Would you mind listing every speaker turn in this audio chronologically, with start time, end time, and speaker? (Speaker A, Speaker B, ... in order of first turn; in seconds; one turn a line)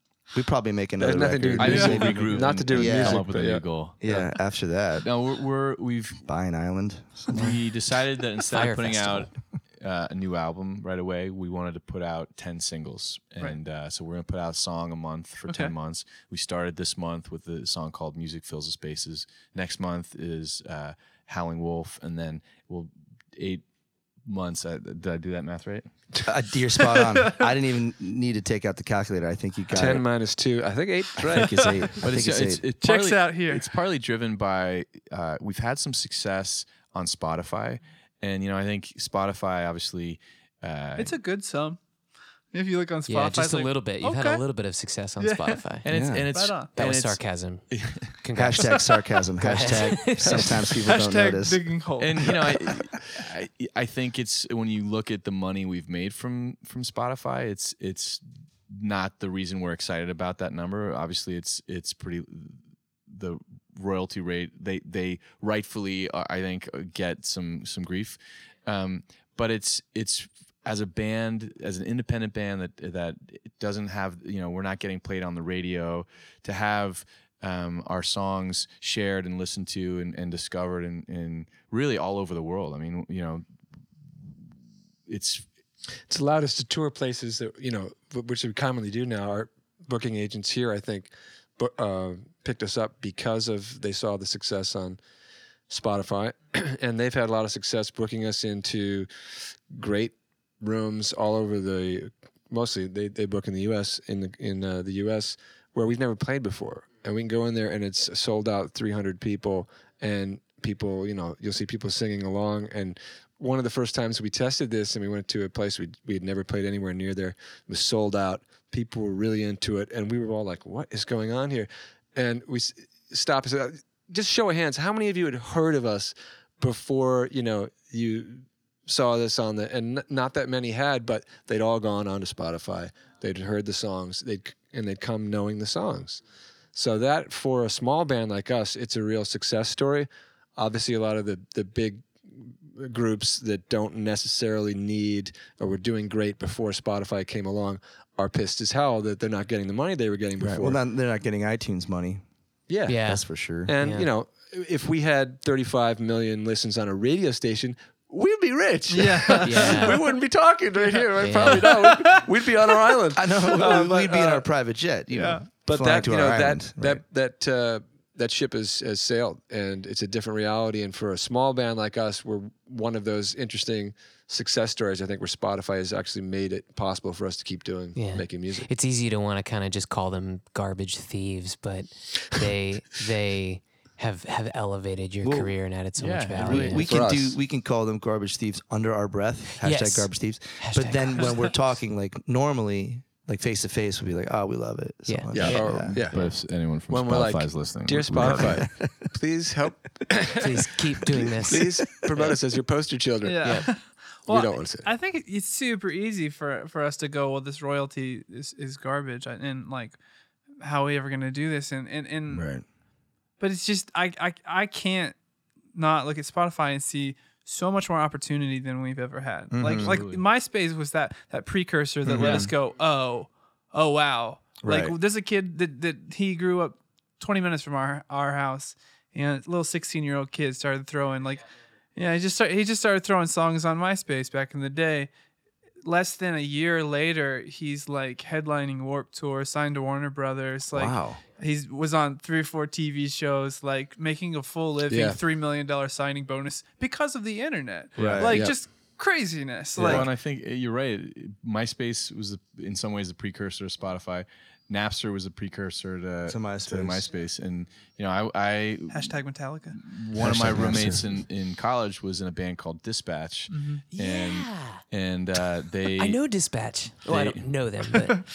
Speaker A: 0.3-3.2
Speaker B: 1.0-3.6
Speaker C: 1.6-4.2
Speaker D: 1.7-2.0
Speaker A: 4.0-5.1
Speaker C: 5.0-6.2
Speaker A: 6.2-7.5
Speaker C: 7.3-23.6
Speaker E: 7.3-7.6
Speaker E: 8.5-9.3
Speaker D: 15.5-15.7
Speaker C: 24.3-25.9
Speaker A: 26.2-30.0
Speaker D: 26.9-27.4
Speaker B: 29.7-31.7
Speaker A: 31.2-32.7
Speaker D: 31.4-31.8
Speaker C: 32.0-41.1
Speaker D: 32.8-33.7
Speaker D: 41.0-41.8
Speaker D: 42.5-44.4
Speaker E: 43.1-45.9
Speaker D: 45.2-45.6
Speaker C: 45.8-48.1
Speaker A: 45.9-46.3
Speaker D: 46.3-46.7
Speaker E: 46.8-47.7
Speaker E: 48.2-50.7
Speaker A: 48.4-51.6
Speaker D: 50.9-52.4
Speaker C: 52.0-83.4
Speaker C: 85.1-85.5
Speaker B: 86.1-95.0
Speaker B: 95.7-136.2
Speaker B: 136.7-150.8
Speaker A: 150.4-152.2
Speaker B: 152.7-153.0
Speaker E: 152.9-153.2
Speaker A: 153.1-153.7
Speaker B: 153.7-164.4
Speaker E: 153.8-154.1
Speaker D: 158.9-160.0
Speaker E: 159.4-160.0
Speaker E: 161.2-161.7
Speaker D: 161.5-162.3
Speaker A: 163.2-167.0
Speaker D: 163.5-164.0
Speaker D: 165.1-165.5
Speaker B: 165.5-178.7
Speaker E: 177.9-186.8
Speaker A: 185.2-185.6
Speaker C: 186.0-186.9
Speaker A: 186.4-196.0
Speaker B: 186.8-187.4
Speaker E: 189.6-191.5
Speaker E: 195.1-195.9
Speaker B: 195.3-196.4
Speaker C: 195.8-198.5
Speaker B: 196.9-200.5
Speaker A: 198.1-199.1
Speaker E: 200.4-201.7
Speaker B: 201.0-203.7
Speaker A: 201.5-202.4
Speaker D: 203.2-210.0
Speaker E: 203.4-203.7
Speaker B: 204.3-204.9
Speaker D: 210.6-212.5
Speaker A: 212.3-212.7
Speaker D: 213.4-215.2
Speaker D: 215.7-235.1
Speaker A: 219.5-220.0
Speaker C: 219.6-220.2
Speaker A: 222.1-222.5
Speaker C: 222.1-222.5
Speaker A: 224.6-224.9
Speaker D: 235.8-250.1
Speaker A: 240.7-241.2
Speaker B: 244.9-245.2
Speaker A: 248.0-248.4
Speaker B: 248.2-248.6
Speaker C: 249.8-259.2
Speaker A: 256.3-257.1
Speaker D: 258.9-259.8
Speaker C: 259.8-266.2
Speaker A: 260.2-261.0
Speaker D: 263.5-263.8
Speaker E: 263.9-264.8
Speaker E: 266.0-268.2
Speaker C: 267.1-267.5